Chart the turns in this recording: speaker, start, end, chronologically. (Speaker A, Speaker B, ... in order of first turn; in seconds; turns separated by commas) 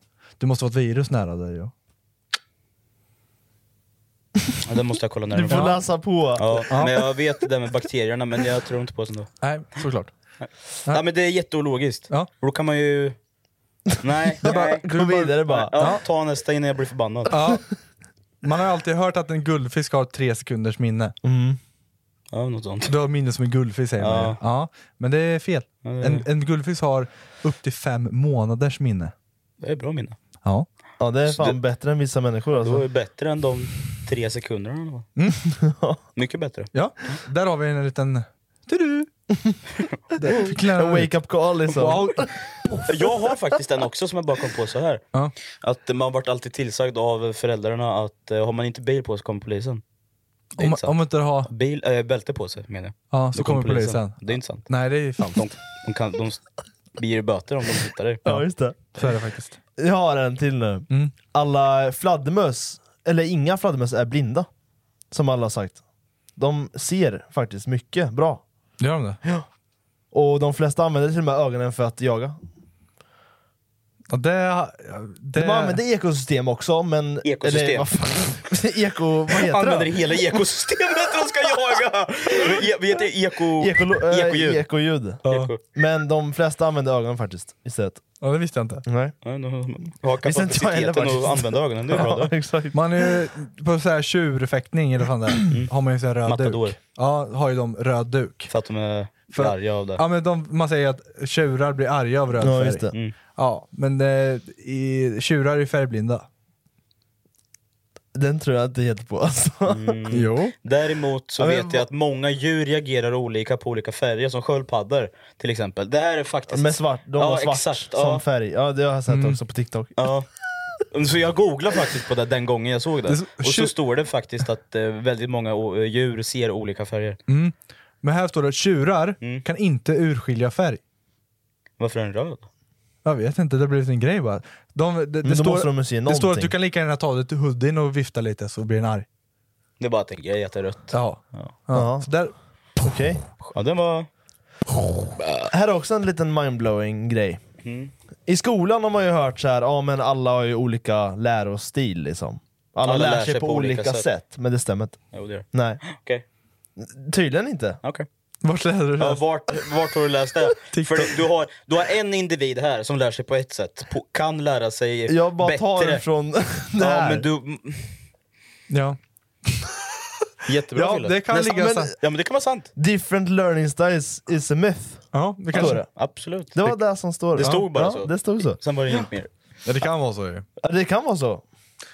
Speaker A: 0.4-1.7, Speaker B: 4.6-5.8, Speaker C: 5.4-6.7, Speaker A: 5.5-5.8, Speaker B: 6.4-9.3, Speaker A: 6.7-7.0, Speaker A: 9.4-10.1, Speaker B: 10.4-13.2, Speaker B: 14.0-14.8, Speaker C: 14.4-15.7, Speaker A: 14.4-16.0, Speaker B: 15.5-17.3, Speaker A: 17.3-17.6, Speaker A: 18.4-21.1, Speaker C: 21.2-21.6, Speaker B: 22.3-22.9, Speaker A: 22.9-29.1, Speaker B: 24.0-24.4, Speaker B: 25.8-26.2, Speaker B: 29.6-30.2, Speaker C: 31.0-32.8, Speaker B: 31.3-31.6, Speaker B: 32.6-35.1, Speaker C: 35.5-36.0, Speaker B: 36.1-37.2, Speaker A: 36.7-39.1, Speaker A: 40.2-41.1, Speaker C: 40.2-42.3, Speaker A: 41.7-42.2, Speaker B: 42.9-45.0, Speaker B: 45.6-49.8, Speaker A: 50.6-51.5, Speaker B: 50.6-54.7, Speaker A: 53.1-55.4, Speaker B: 55.2-56.4, Speaker B: 57.0-58.2, Speaker C: 58.2-58.9, Speaker A: 59.0-59.6, Speaker C: 59.8-64.5, Speaker C: 65.1-65.8, Speaker C: 66.4-68.4, Speaker A: 68.8-69.2, Speaker C: 70.1-72.4, Speaker A: 74.1-75.8, Speaker C: 75.3-80.0, Speaker B: 77.2-77.9, Speaker B: 79.4-84.6, Speaker C: 83.6-88.0, Speaker A: 85.2-85.5, Speaker B: 85.2-85.6, Speaker A: 88.2-88.8, Speaker C: 88.8-89.1, Speaker B: 89.2-92.3, Speaker C: 90.2-93.0, Speaker A: 92.7-98.5, Speaker B: 96.2-96.8, Speaker B: 98.5-100.0, Speaker A: 99.3-106.2, Speaker C: 102.4-102.9, Speaker C: 108.1-109.9, Speaker B: 109.7-118.2, Speaker A: 110.1-110.5, Speaker C: 111.4-111.8, Speaker C: 116.5-119.9, Speaker A: 119.1-119.4, Speaker B: 120.0-120.3, Speaker B: 120.9-127.2, Speaker A: 123.1-123.7, Speaker A: 127.3-130.8, Speaker B: 131.8-132.5, Speaker A: 133.0-139.1, Speaker C: 135.2-136.5, Speaker B: 139.8-141.5, Speaker A: 140.9-142.3, Speaker C: 141.7-142.1, Speaker C: 142.8-143.2, Speaker B: 143.5-144.1, Speaker C: 145.5-147.4, Speaker B: 147.6-147.9, Speaker C: 148.3-155.0, Speaker B: 152.8-154.1, Speaker B: 155.1-156.2, Speaker C: 155.5-155.8, Speaker C: 156.8-157.8, Speaker A: 158.4-159.2, Speaker B: 159.0-166.0, Speaker A: 160.7-161.1, Speaker C: 165.1-167.2, Speaker B: 166.8-168.0, Speaker A: 168.7-169.0, Speaker B: 170.4-172.7, Speaker A: 170.7-171.9, Speaker C: 171.4-171.9, Speaker C: 172.8-175.9, Speaker A: 175.1-175.8, Speaker B: 175.5-176.6, Speaker C: 176.5-179.0, Speaker B: 177.4-179.3, Speaker A: 179.7-180.4, Speaker C: 180.6-181.4